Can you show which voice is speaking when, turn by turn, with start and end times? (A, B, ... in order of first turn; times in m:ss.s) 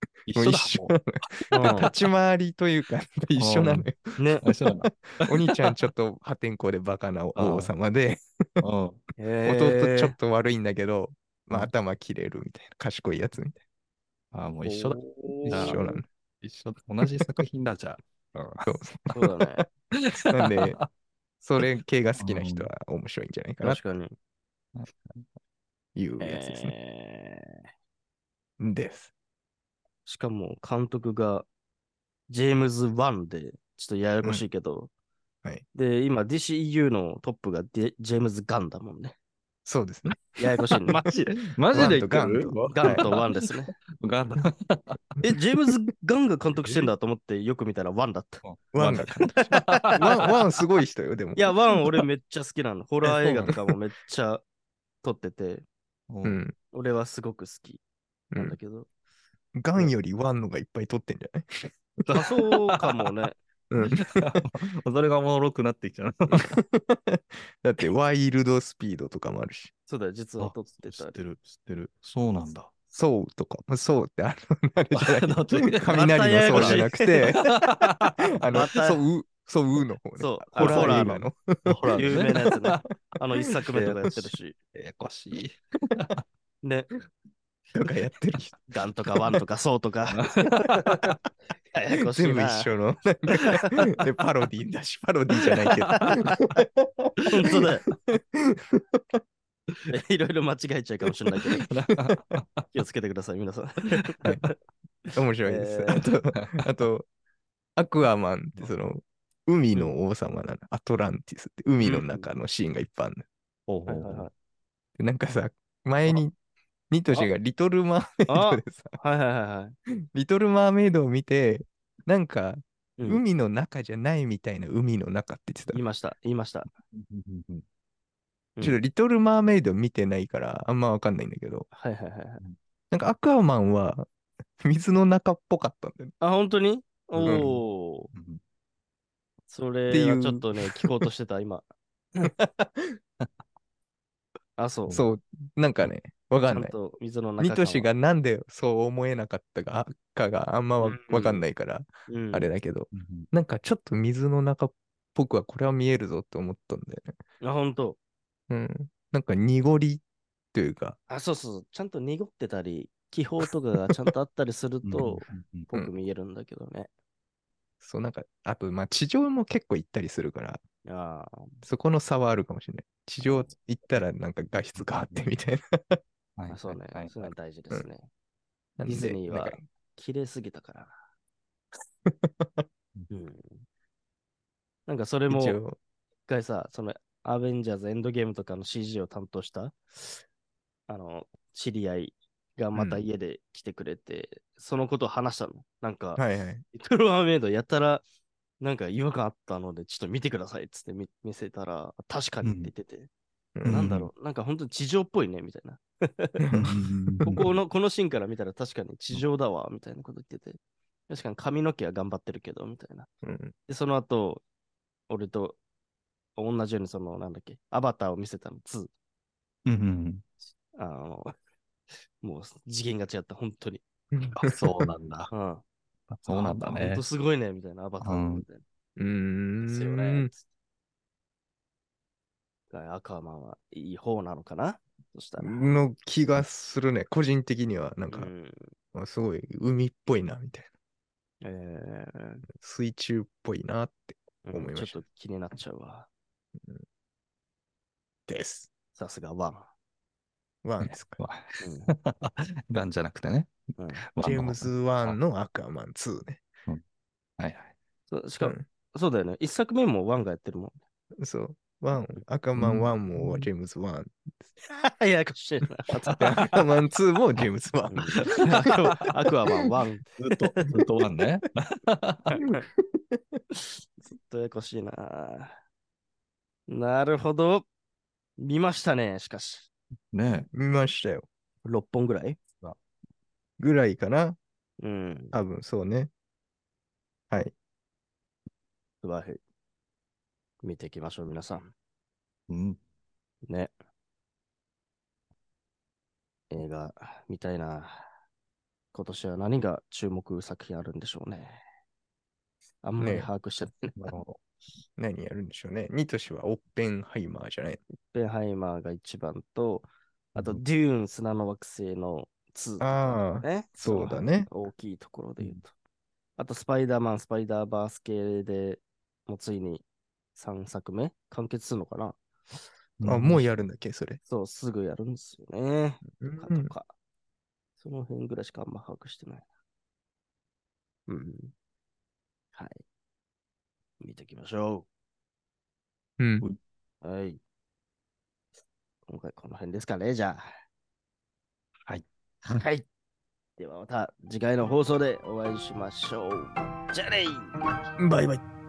0:00.3-0:02.1 A
0:00.3-0:04.2 B
0:01.5-0:01.9 C
0:03.4-0:03.9 A
0:04.2-0:04.4 C
0:04.4-0:05.9 A
0:04.8-0:08.6 B
0:07.4-0:07.7 A
0:08.6-0:09.0 A
0:09.2-0:10.1 C
0:09.4-0:13.6 B
0:14.3-0:15.8 A
0:14.6-0:16.0 C
0:15.5-0:16.0 B
0:16.4-0:18.6 A
0:18.6-0:19.6 B
0:19.1-0:19.7 C
0:20.1-0:20.8 A
0:20.2-0:20.8 B
0:21.4-0:23.8 B
0:22.2-0:22.7 A
0:23.6-0:24.1 C
0:24.7-0:25.2 A
0:25.9-0:26.7 B
0:26.2-0:27.6 C
0:28.6-0:29.1 B
0:30.0-0:31.5 C
0:32.3-0:34.9 C
0:35.7-0:39.1 C
0:39.6-0:40.8 B
0:40.4-0:41.0 C
0:41.0-0:43.2 A
0:41.7-0:43.1 B
0:41.8-0:42.0 C
0:42.7-0:43.7 C
0:44.0-0:45.0 A
0:45.2-0:48.4 C
0:46.5-0:46.9 A
0:48.4-0:50.4 A
0:48.7-0:51.8 B
0:51.4-0:54.4 C
0:55.0-0:55.6 C
0:56.1-0:56.4 A
0:56.2-0:56.5 B
0:56.7-0:57.8 C
0:58.3-0:58.6 B
0:58.4-0:58.9 C
0:59.5-1:01.8 B
1:02.1-1:03.1 A
1:02.1-1:03.4 C
1:03.7-1:04.4 B
1:03.8-1:06.5 A
1:06.3-1:09.7 B
1:09.9-1:11.2 C
1:10.4-1:12.7 A
1:12.9-1:17.5 B
1:14.9-1:18.5 A
1:15.9-1:17.0 C
1:18.2-1:22.3 B
1:18.5-1:19.0 C
1:20.2-1:21.2 C
1:20.6-1:22.8 A
1:22.0-1:24.5 C
1:23.7-1:24.0 A
1:24.7-1:26.2 A
1:26.6-1:26.9 C
1:27.7-1:28.6 B
1:28.7-1:31.0 C
1:30.1-1:31.1 A
1:31.7-1:32.7 C
1:32.1-1:37.1 B
1:35.7-1:36.5 A
1:37.3-1:37.8 C
1:38.1-1:39.0 B
1:39.9-1:41.7 C
1:41.7-1:42.7 A
1:42.7-1:44.1 C
1:44.2-1:44.5 B
1:45.1-1:47.1 B
1:45.4-1:46.1 C
1:46.3-1:46.8 A
1:47.8-1:53.2 B
1:49.7-1:50.0 C
1:51.8-1:52.3 C
1:53.7-1:54.3 A
1:53.9-1:54.3 C
1:55.0-1:56.3 B
1:56.9-1:59.0 B
1:58.3-1:59.7 C
2:00.1-2:05.8 B
2:05.7-2:06.7 C
2:06.9-2:07.6 A
2:08.6-2:08.8 C
2:08.6-2:11.7 B
2:11.7-2:12.4 C
2:12.9-2:14.1 B
2:14.6-2:16.1 B
2:16.2-2:18.1 C
2:17.1-2:18.4 A
2:19.5-2:21.6 C
2:19.9-2:21.0 B
2:22.2-2:23.0 B
2:24.6-2:25.0 C
2:24.9-2:26.7 B
2:26.4-2:27.9 C
2:27.4-2:37.1 B
2:30.8-2:31.4 C
2:32.1-2:32.5 C
2:32.9-2:33.3 A
2:37.4-2:38.0 C
2:38.5-2:41.0 B
2:41.1-2:46.9 C
2:44.8-2:45.7 A
2:47.8-2:50.6 B
2:50.8-2:51.5 C
2:51.6-2:56.0 B
2:54.8-2:55.3 A
2:56.4-2:57.3 A
2:56.5-2:58.1 C
2:58.8-2:59.6 B
2:58.8-3:01.0 C
3:02.0-3:02.6 B
3:03.1-3:03.6 C
3:04.9-3:05.6 C
3:05.3-3:05.8 B
3:06.3-3:10.2 C
3:10.9-3:18.0 C
3:12.7-3:13.0 B
3:16.2-3:16.6 B
3:18.6-3:23.1 C
3:22.4-3:22.7 A
3:23.6-3:24.1 A
3:23.6-3:26.4 C
3:26.4-3:26.7 B
3:26.5-3:27.5 A
3:27.2-3:33.1 C
3:33.2-3:33.5 B
3:33.7-3:34.4 C
3:35.1-3:35.6 C
3:36.4-3:38.9 C
3:39.6-3:40.2 A
3:40.7-3:41.3 C
3:42.2-3:43.8 C
3:44.1-3:44.6 B
3:44.4-3:45.3 A
3:45.3-3:45.6 C
3:46.1-3:47.0 A
3:46.3-3:48.6 C
3:48.0-3:48.4 A
3:49.0-3:50.3 B
3:49.6-3:50.4 C
3:52.7-3:55.7 C
3:55.4-3:58.3 B
3:58.1-3:58.7 C
3:58.9-4:00.7 B
4:01.4-4:02.4 C
4:02.6-4:05.0 B
4:04.4-4:06.1 C
4:08.3-4:08.7 B
4:08.9-4:09.7 C
4:10.6-4:11.2 B
4:10.8-4:15.2 A
4:11.6-4:11.9 C
4:13.8-4:14.0 C
4:14.2-4:16.4 B
4:17.4-4:17.7 A
4:18.1-4:20.8 C
4:21.2-4:24.4 B
4:22.6-4:23.5 A
4:24.6-4:26.4 C
4:26.1-4:28.4 B
4:26.2-4:26.5 A
4:27.9-4:30.6 C
4:28.4-4:28.7 A
4:30.2-4:32.3 A
4:32.3-4:32.6 C
4:32.4-4:33.4 B
4:33.8-4:35.6 C
4:36.7-4:37.7 C
4:38.4-4:39.7 C
4:40.1-4:40.5 A
4:40.5-4:41.3 B
4:41.6-4:42.4 C
4:43.6-4:44.4 B
4:44.8-4:45.3 C
4:45.3-4:46.1 B
4:49.0-4:49.4 C
4:50.6-4:51.7 C
4:52.5-4:52.8 A
4:53.4-4:53.7 C
4:56.5-4:58.0 C
4:58.9-5:01.6 C
5:02.8-5:04.1 C
5:03.0-5:03.3 B
5:03.9-5:04.4 A
5:05.0-5:07.8 B
5:08.1-5:15.7 C
5:10.3-5:10.6 A
5:12.8-5:14.5 B
5:16.4-5:22.2 C
5:23.0-5:23.4 A
5:23.0-5:24.2 B
5:24.3-5:26.9 C
5:26.2-5:26.7 B
5:27.8-5:29.4 C
5:31.1-5:31.5 C
5:32.5-5:32.8 C
5:34.0-5:34.9 C
5:36.2-5:36.5 B
5:37.0-5:37.4 C
5:39.1-5:40.5 C
5:41.9-5:42.6 A
5:42.5-5:42.8 C
5:43.6-5:47.6 C
5:48.0-5:48.4 B